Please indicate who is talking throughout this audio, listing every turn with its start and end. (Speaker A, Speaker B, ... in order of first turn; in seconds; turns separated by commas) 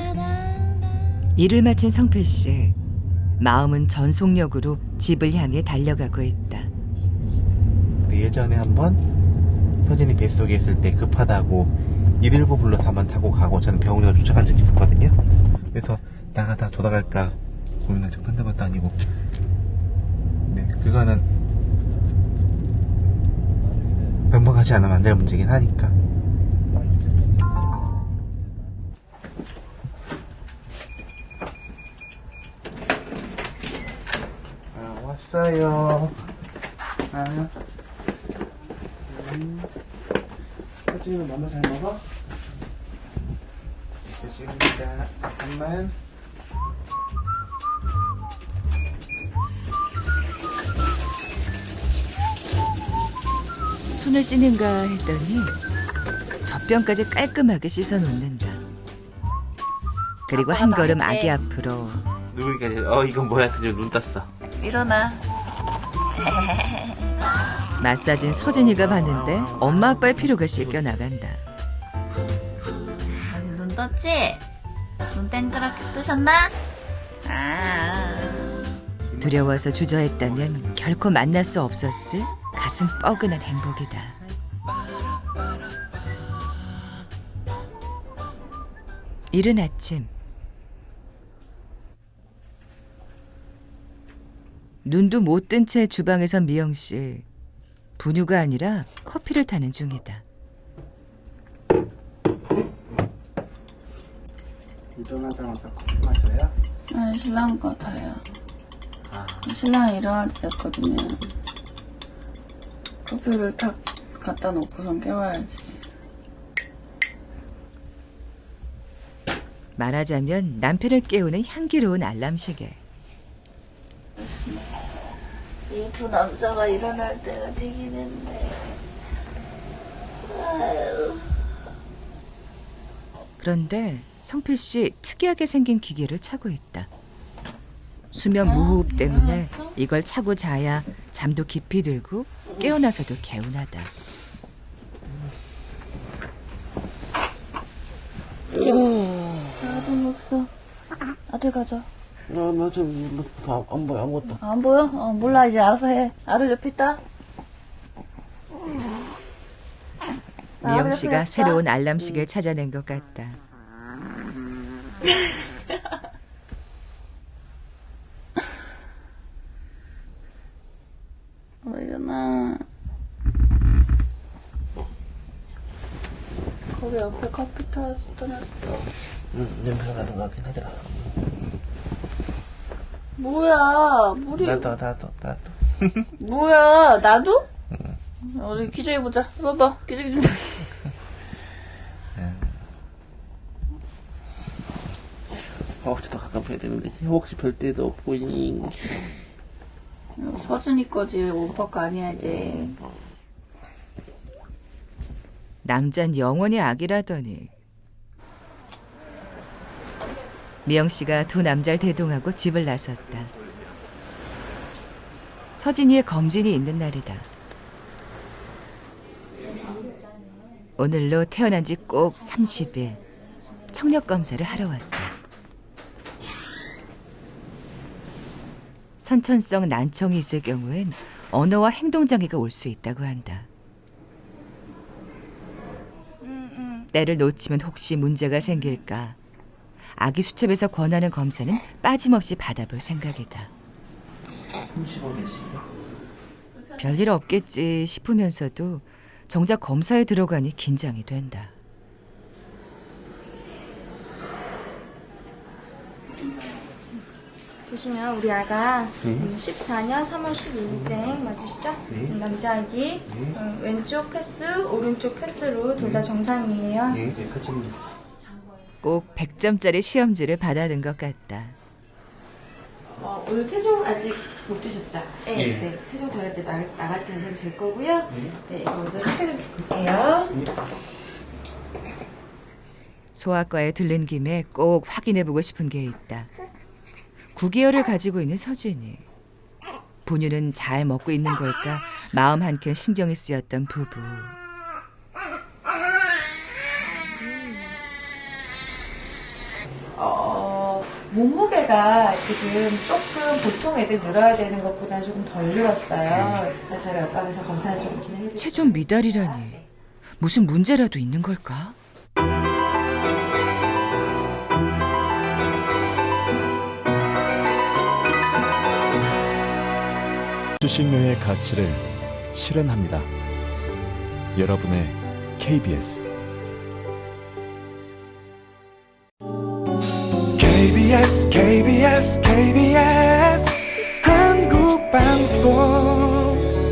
Speaker A: 1.4-2.8, Speaker A: 3.4-6.7, Speaker B: 8.0-9.0, Speaker B: 9.8-15.2, Speaker B: 15.7-19.0, Speaker B: 20.5-21.3, Speaker B: 24.3-25.9, Speaker B: 34.7-36.1, Speaker B: 37.1-37.5, Speaker B: 39.1-39.7, Speaker B: 40.9-42.1, Speaker B: 44.1-45.9, Speaker A: 54.0-55.5, Speaker A: 56.4-58.6, Speaker A: 60.3-62.0, Speaker C: 60.3-61.3, Speaker B: 62.3-64.3, Speaker C: 64.6-65.2, Speaker C: 66.2-67.0, Speaker A: 67.8-71.4, Speaker B: 68.4-70.8, Speaker C: 73.3-74.4, Speaker C: 75.1-76.5, Speaker C: 77.2-78.5, Speaker B: 79.1-79.7, Speaker A: 79.2-84.2, Speaker B: 80.2-80.6, Speaker A: 89.3-90.1, Speaker A: 94.8-97.2, Speaker A: 98.0-100.2, Speaker D: 104.9-106.5, Speaker C: 106.9-108.2, Speaker D: 109.1-109.5, Speaker C: 109.4-111.3, Speaker C: 113.0-115.8, Speaker A: 119.8-122.8, Speaker C: 124.2-124.7, Speaker C: 125.7-128.7, Speaker C: 130.2-131.3, Speaker A: 133.4-136.9, Speaker A: 138.1-143.9, Speaker C: 138.4-139.7, Speaker B: 148.7-149.0, Speaker C: 149.6-150.5, Speaker C: 151.3-151.9, Speaker B: 152.3-154.4, Speaker C: 154.4-157.0, Speaker C: 160.6-161.6, Speaker A: 160.6-163.4, Speaker C: 171.6-172.6, Speaker C: 176.7-178.9, Speaker B: 179.3-181.2, Speaker C: 183.2-184.8, Speaker B: 184.4-186.1, Speaker C: 186.2-187.5, Speaker C: 188.2-190.7, Speaker B: 192.1-192.6, Speaker B: 195.7-199.1, Speaker C: 200.2-202.8, Speaker A: 205.6-207.5, Speaker A: 210.6-213.3, Speaker A: 215.6-217.3, Speaker A: 220.8-223.1, Speaker A: 223.7-225.1, Speaker A: 229.0-233.5, Speaker A: 236.9-239.2, Speaker A: 239.9-243.5, Speaker B: 244.7-245.6, Speaker C: 246.5-247.1, Speaker A: 246.8-251.5, Speaker C: 256.1-256.7, Speaker E: 257.7-267.0, Speaker B: 259.0-259.3, Speaker B: 260.7-261.0, Speaker B: 261.9-262.2, Speaker B: 263.1-263.4, Speaker B: 265.8-266.1, Speaker B: 266.9-267.8, Speaker A: 268.8-271.6, Speaker F: 272.9-280.4, Speaker B: 275.3-275.7, Speaker B: 278.1-278.4, Speaker A: 283.1-286.3, Speaker A: 287.3-289.0, Speaker A: 290.1-294.4, Speaker F: 299.9-309.6, Speaker B: 306.1-306.4, Speaker A: 308.3-309.6, Speaker A: 310.2-311.8, Speaker G: 320.6-323.1, Speaker G: 324.3-326.0, Speaker H: 330.4-336.4